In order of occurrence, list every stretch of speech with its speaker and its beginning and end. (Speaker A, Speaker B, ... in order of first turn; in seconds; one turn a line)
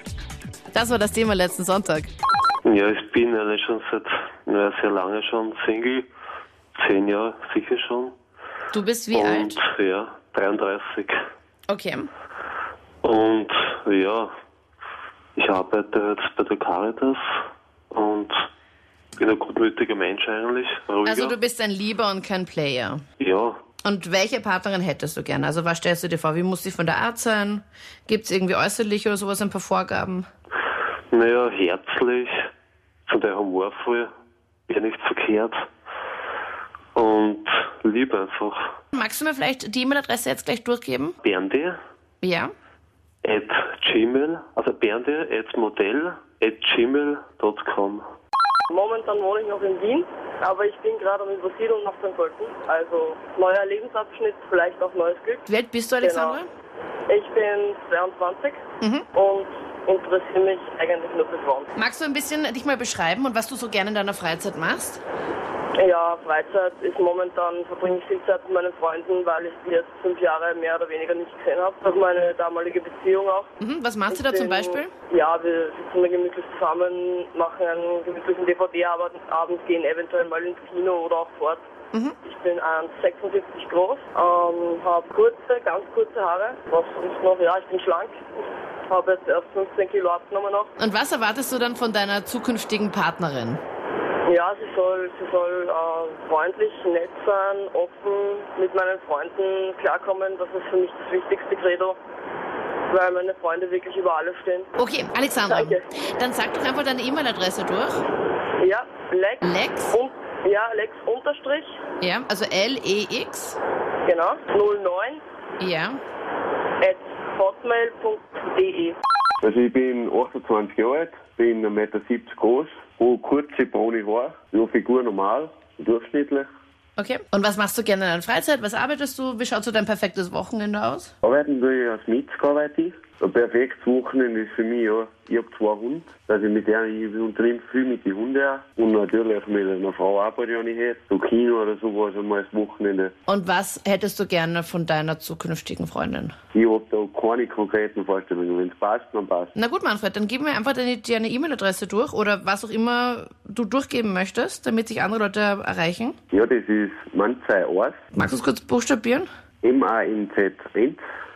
Speaker A: 0.7-2.1
Speaker B: 2.6-6.1
Speaker B: 6.8-8.1
Speaker A: 8.7-9.6
Speaker B: 9.1-11.2
Speaker A: 11.7-12.1
Speaker B: 13.0-14.3
Speaker B: 15.4-17.2
Speaker B: 17.9-18.3
Speaker B: 19.2-21.4
Speaker A: 21.1-23.0
Speaker B: 23.2-23.6
Speaker A: 23.8-30.3
Speaker B: 31.1-32.4
Speaker B: 33.1-34.1
Speaker B: 34.7-35.7
Speaker B: 37.0-38.6
Speaker A: 38.9-41.2
Speaker B: 41.2-41.8
Speaker A: 42.2-42.5
Speaker B: 43.2-48.0
Speaker C: 48.7-55.5
Speaker A: 55.5-56.5
Speaker C: 56.0-56.4
Speaker C: 57.1-58.6
Speaker A: 58.8-59.1
Speaker C: 59.1-61.7
Speaker A: 61.8-65.0
Speaker C: 65.8-73.5
Speaker A: 73.6-74.9
Speaker C: 74.1-81.6
Speaker C: 82.3-88.2
Speaker C: 88.9-90.7
Speaker A: 90.8-93.6
Speaker C: 94.3-102.0
Speaker C: 102.9-104.7
Speaker A: 104.8-108.0
Speaker C: 105.5-105.8
Speaker C: 108.6-111.8
Speaker A: 109.4-110.0
Speaker A: 112.0-113.6
Speaker C: 114.1-115.2
Speaker A: 115.6-116.0
Speaker C: 116.8-119.0
Speaker D: 119.4-126.5
Speaker A: 127.0-131.1
Speaker D: 131.2-143.1
Speaker A: 143.3-146.3
Speaker D: 146.5-149.5
Speaker A: 149.6-156.2
Speaker D: 156.3-158.0
Speaker A: 158.1-159.3
Speaker D: 159.6-161.0